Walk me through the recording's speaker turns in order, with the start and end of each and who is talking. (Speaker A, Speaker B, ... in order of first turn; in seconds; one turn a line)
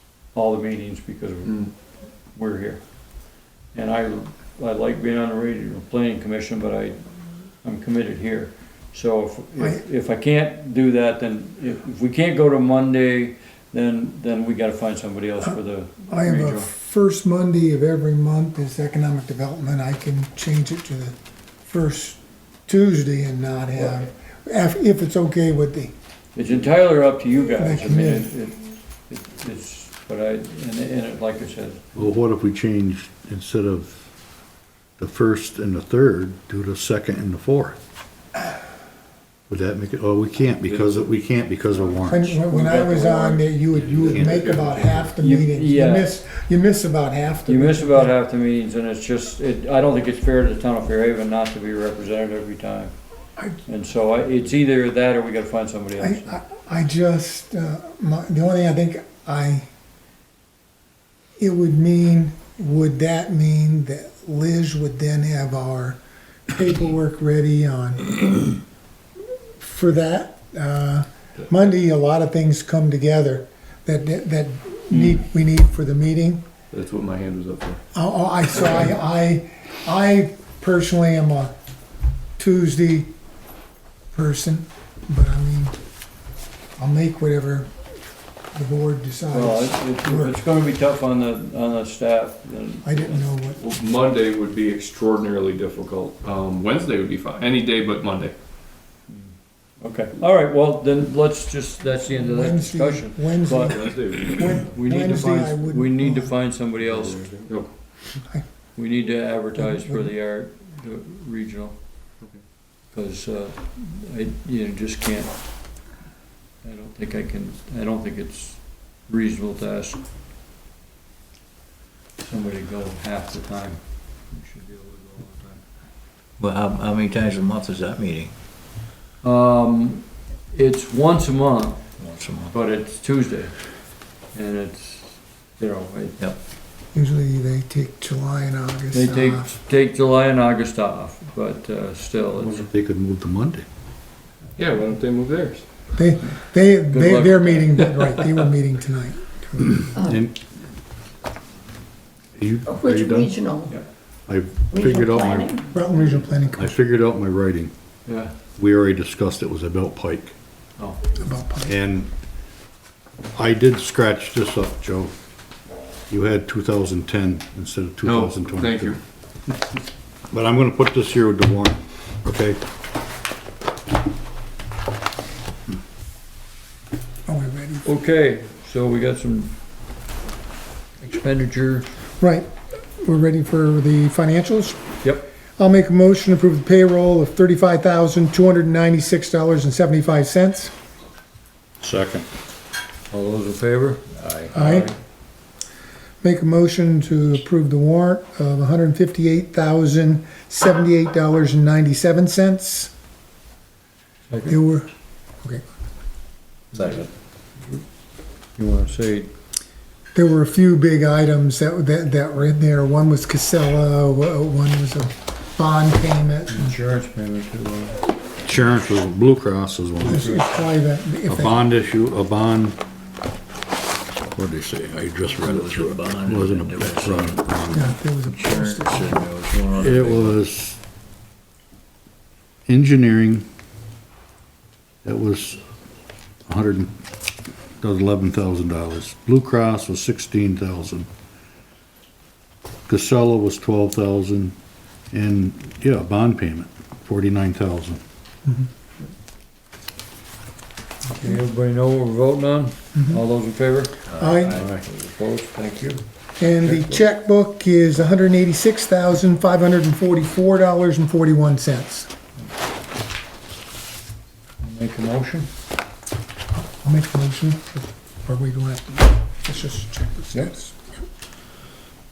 Speaker A: 0.3-7.0
Speaker A: 7.6-16.7
Speaker B: 16.1-25.9
Speaker A: 26.4-31.8
Speaker B: 27.6-28.3
Speaker C: 31.9-34.1
Speaker C: 35.0-37.8
Speaker C: 39.5-42.3
Speaker D: 40.6-41.2
Speaker B: 42.1-48.1
Speaker A: 42.4-43.4
Speaker D: 42.5-42.9
Speaker D: 43.7-45.1
Speaker C: 44.1-44.5
Speaker A: 45.2-46.1
Speaker A: 47.5-52.9
Speaker A: 53.6-56.4
Speaker B: 56.0-59.7
Speaker B: 61.4-68.6
Speaker B: 69.6-76.4
Speaker D: 76.7-77.8
Speaker B: 77.9-81.5
Speaker B: 82.4-83.1
Speaker B: 84.1-85.8
Speaker B: 86.8-87.7
Speaker B: 88.5-90.4
Speaker A: 89.3-93.3
Speaker B: 92.8-93.6
Speaker D: 93.6-98.3
Speaker A: 99.1-103.8
Speaker B: 102.1-106.4
Speaker D: 103.7-104.7
Speaker A: 104.6-108.0
Speaker D: 106.8-107.7
Speaker A: 108.8-112.0
Speaker B: 109.5-110.1
Speaker A: 112.9-115.3
Speaker A: 116.6-120.0
Speaker A: 122.2-125.6
Speaker E: 126.4-128.3
Speaker A: 129.2-131.9
Speaker E: 132.0-132.6
Speaker A: 132.5-136.2
Speaker B: 136.9-139.5
Speaker A: 138.9-142.7
Speaker D: 142.4-142.6
Speaker C: 142.6-143.7
Speaker D: 144.6-145.7
Speaker B: 145.9-149.9
Speaker A: 146.9-147.8
Speaker C: 150.0-150.4
Speaker C: 152.4-153.4
Speaker F: 152.7-153.8
Speaker C: 154.3-155.6
Speaker F: 154.7-155.8
Speaker B: 155.7-156.8
Speaker C: 156.5-157.7
Speaker A: 158.1-158.3
Speaker C: 158.6-160.3
Speaker B: 161.2-161.8
Speaker C: 161.7-162.1
Speaker C: 163.3-165.1
Speaker C: 166.1-168.9
Speaker D: 168.1-169.0
Speaker C: 170.3-172.6
Speaker B: 177.3-177.9
Speaker A: 177.8-179.5
Speaker A: 181.0-181.9
Speaker B: 182.2-184.8
Speaker A: 185.0-185.3
Speaker B: 185.6-190.7
Speaker C: 191.8-192.3
Speaker A: 193.1-194.9
Speaker B: 194.5-194.9
Speaker B: 196.2-202.9
Speaker A: 204.3-204.6
Speaker B: 204.5-204.9
Speaker A: 206.7-207.1
Speaker E: 206.7-207.1
Speaker A: 207.6-207.8
Speaker A: 208.6-209.3
Speaker B: 210.1-216.8
Speaker A: 216.5-218.0
Speaker C: 218.4-220.3
Speaker A: 220.0-220.7
Speaker B: 220.1-221.6
Speaker C: 221.3-222.8
Speaker C: 224.3-227.9
Speaker E: 225.4-227.4
Speaker B: 227.7-229.2
Speaker E: 228.1-230.4
Speaker C: 229.8-230.8
Speaker C: 232.7-233.5
Speaker C: 235.0-235.6
Speaker C: 236.5-236.9
Speaker C: 237.8-241.1
Speaker C: 242.9-244.6
Speaker C: 245.1-248.0
Speaker A: 251.1-256.0
Speaker E: 254.1-254.5
Speaker B: 254.1-254.6
Speaker C: 254.5-254.8
Speaker B: 256.4-262.1
Speaker A: 256.6-257.0
Speaker A: 264.6-265.5
Speaker B: 266.6-270.8